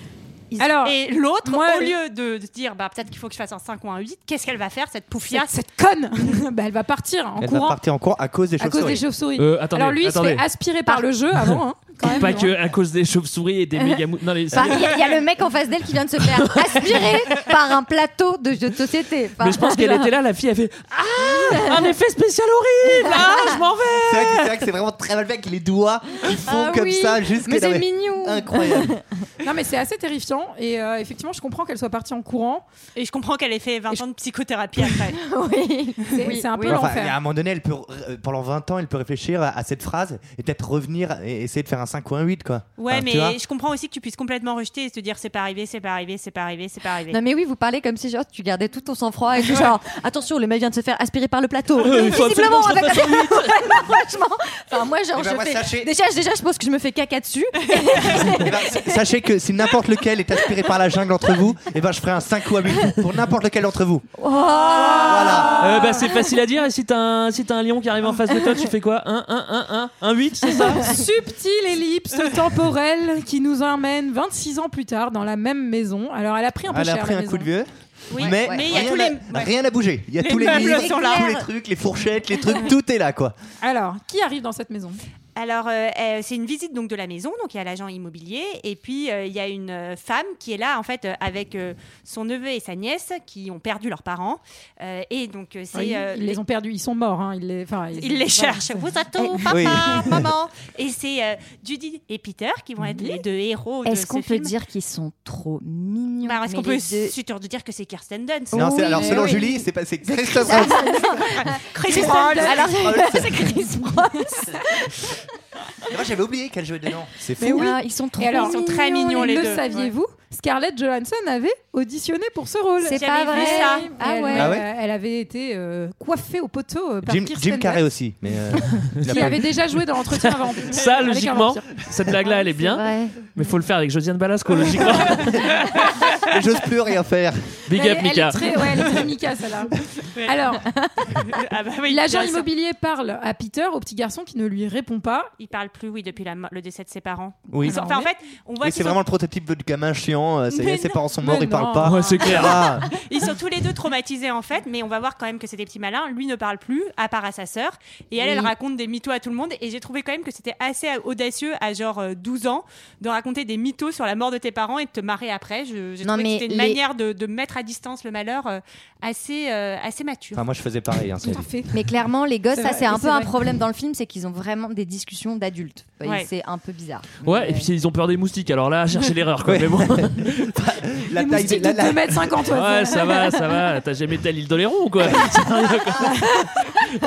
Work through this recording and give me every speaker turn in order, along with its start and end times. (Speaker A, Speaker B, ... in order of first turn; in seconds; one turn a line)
Speaker A: 0.5-5.5
Speaker B: 0.6-2.0
Speaker B: 5.3-7.8
Speaker C: 7.4-9.1
Speaker B: 8.6-12.5
Speaker D: 9.4-10.4
Speaker D: 12.0-14.9
Speaker E: 14.5-20.1
Speaker D: 16.2-17.2
Speaker D: 19.4-24.6
Speaker E: 21.2-21.9
Speaker E: 22.8-23.6
Speaker C: 24.0-28.9
Speaker E: 26.4-29.2
Speaker B: 29.4-32.6
Speaker A: 33.0-35.2
Speaker E: 35.2-36.9
Speaker B: 36.1-37.2
Speaker C: 36.6-43.4
Speaker A: 42.8-47.2
Speaker E: 47.1-59.0
Speaker D: 51.8-53.7
Speaker C: 55.1-55.9
Speaker C: 58.1-64.1
Speaker E: 64.2-66.1
Speaker A: 64.6-65.5
Speaker B: 64.8-65.3
Speaker C: 64.9-65.6
Speaker D: 65.6-71.0
Speaker B: 70.8-77.5
Speaker C: 76.7-83.3
Speaker A: 78.1-79.5
Speaker E: 78.2-78.9
Speaker A: 80.2-81.3
Speaker E: 80.4-81.4
Speaker B: 83.6-85.0
Speaker A: 85.3-96.4
Speaker B: 95.7-98.6
Speaker A: 98.0-104.5
Speaker E: 99.2-99.8
Speaker C: 99.5-100.2
Speaker E: 103.8-107.1
Speaker A: 106.2-109.4
Speaker C: 108.5-111.0
Speaker E: 108.5-115.2
Speaker A: 110.6-113.0
Speaker B: 111.8-112.6
Speaker C: 112.5-113.6
Speaker C: 115.8-117.7
Speaker B: 117.4-127.8
Speaker E: 117.4-119.6
Speaker A: 118.3-119.9
Speaker E: 122.8-124.6
Speaker A: 122.9-123.9
Speaker C: 124.3-124.7
Speaker C: 127.0-129.6
Speaker D: 129.0-129.3
Speaker B: 129.0-131.7
Speaker D: 130.1-135.4
Speaker E: 132.5-133.3
Speaker C: 136.2-137.6
Speaker D: 137.7-138.6
Speaker B: 137.7-139.7
Speaker B: 140.2-140.7
Speaker A: 141.1-142.5
Speaker B: 141.9-145.3
Speaker A: 145.4-149.0
Speaker C: 147.5-147.8
Speaker B: 147.6-148.1
Speaker C: 148.6-152.9
Speaker A: 150.5-151.0
Speaker B: 151.2-152.2
Speaker D: 151.8-152.6
Speaker A: 152.9-170.4
Speaker E: 158.2-158.5
Speaker E: 166.0-166.8
Speaker C: 170.3-171.5
Speaker B: 171.2-171.7
Speaker E: 171.7-177.7
Speaker B: 172.5-173.3
Speaker A: 176.0-176.3
Speaker D: 177.2-180.5
Speaker C: 179.4-182.5
Speaker B: 181.1-183.4
Speaker D: 182.5-186.3
Speaker B: 186.0-186.8